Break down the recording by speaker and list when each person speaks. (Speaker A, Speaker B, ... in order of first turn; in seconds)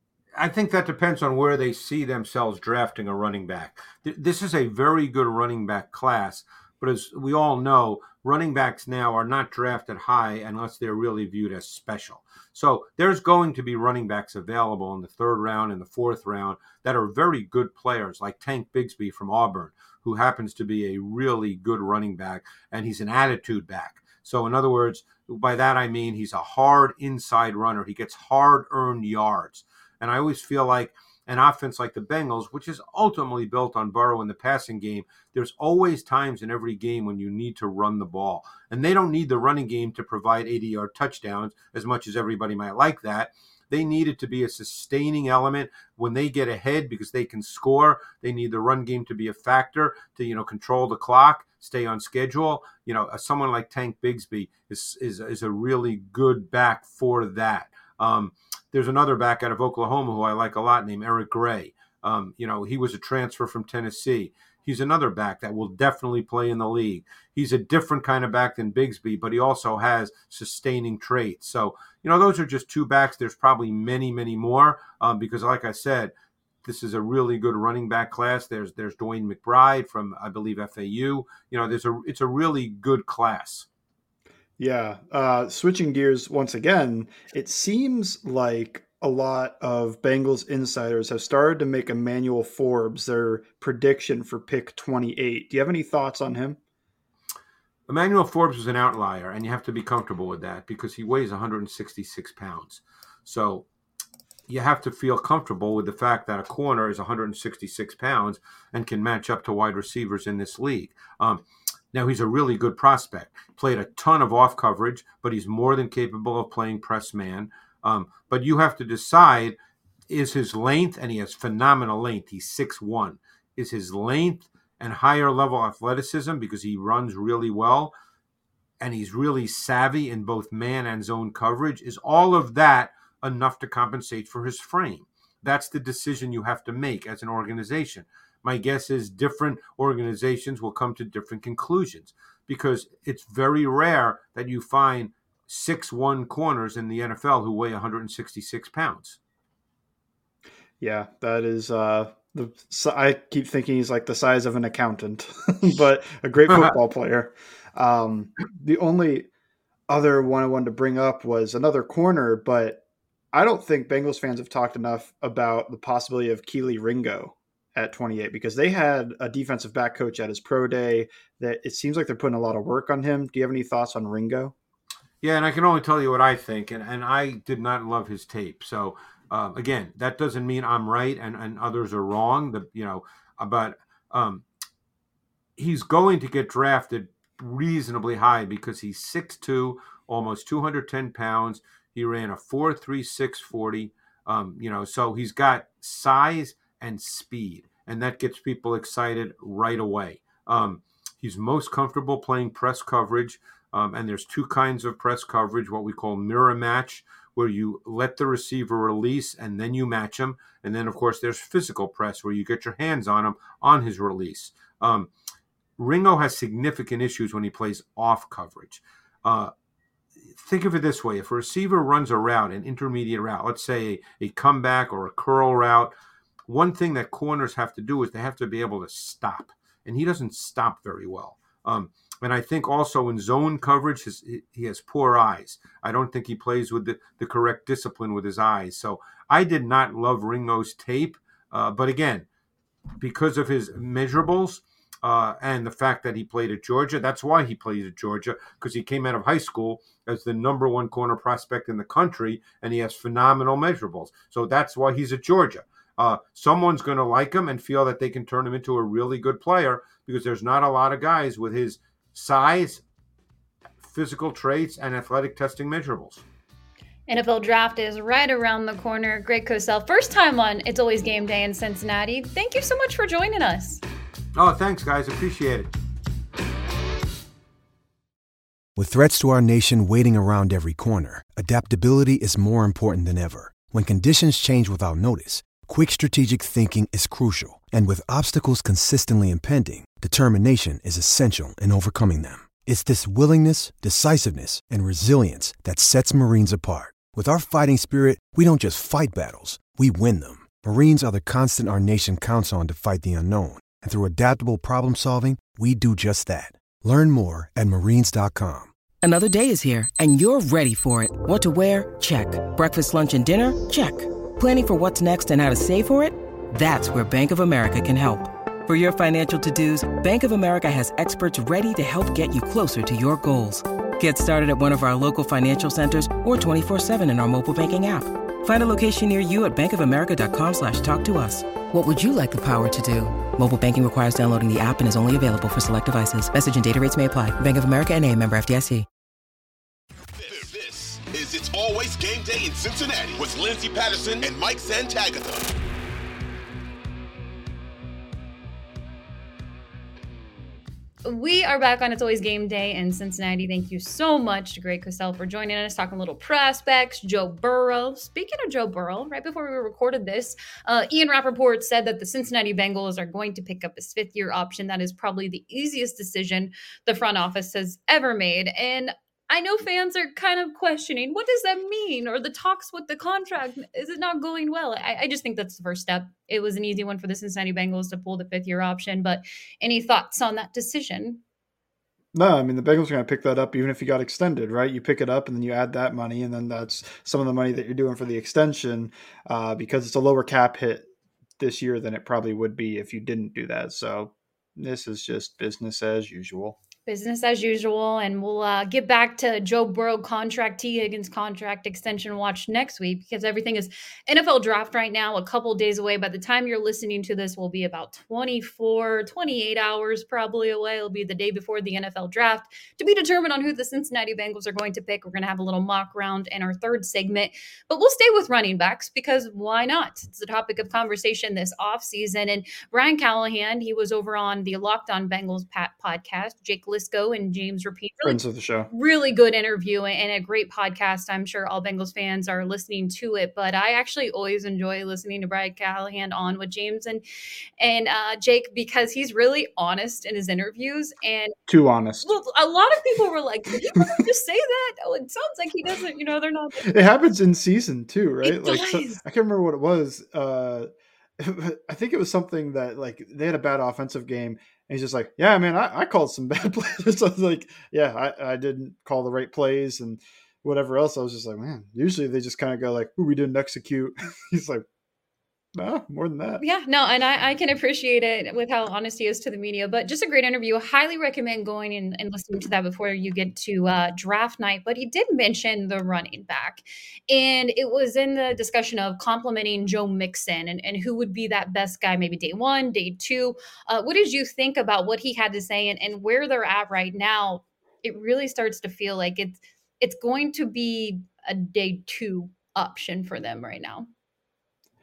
Speaker A: 0.3-76.1, 76.6-83.7, 97.9-103.6, 104.5-119.6, 120.1-127.9, 128.8-149.2, 175.2-184.4, 185.6-215.1, 215.8-219.5, 220.3-225.9, 226.5-242.2, 243.0-262.8, 263.8-266.2, 274.3-275.7
Speaker B: 84.6-96.6, 150.8-159.3, 159.9-162.8, 163.3-174.5, 382.1-390.9, 391.4-396.6, 428.0-428.7, 441.5-442.1, 446.6-464.6, 465.5-466.4
Speaker C: 267.1-273.8, 351.0-381.2, 396.9-428.2, 428.7-437.0, 437.6-441.3, 442.0-446.8, 448.2-449.0, 466.4-493.9
Speaker D: 278.8-308.7
Speaker E: 309.0-338.9
Speaker F: 340.1-345.5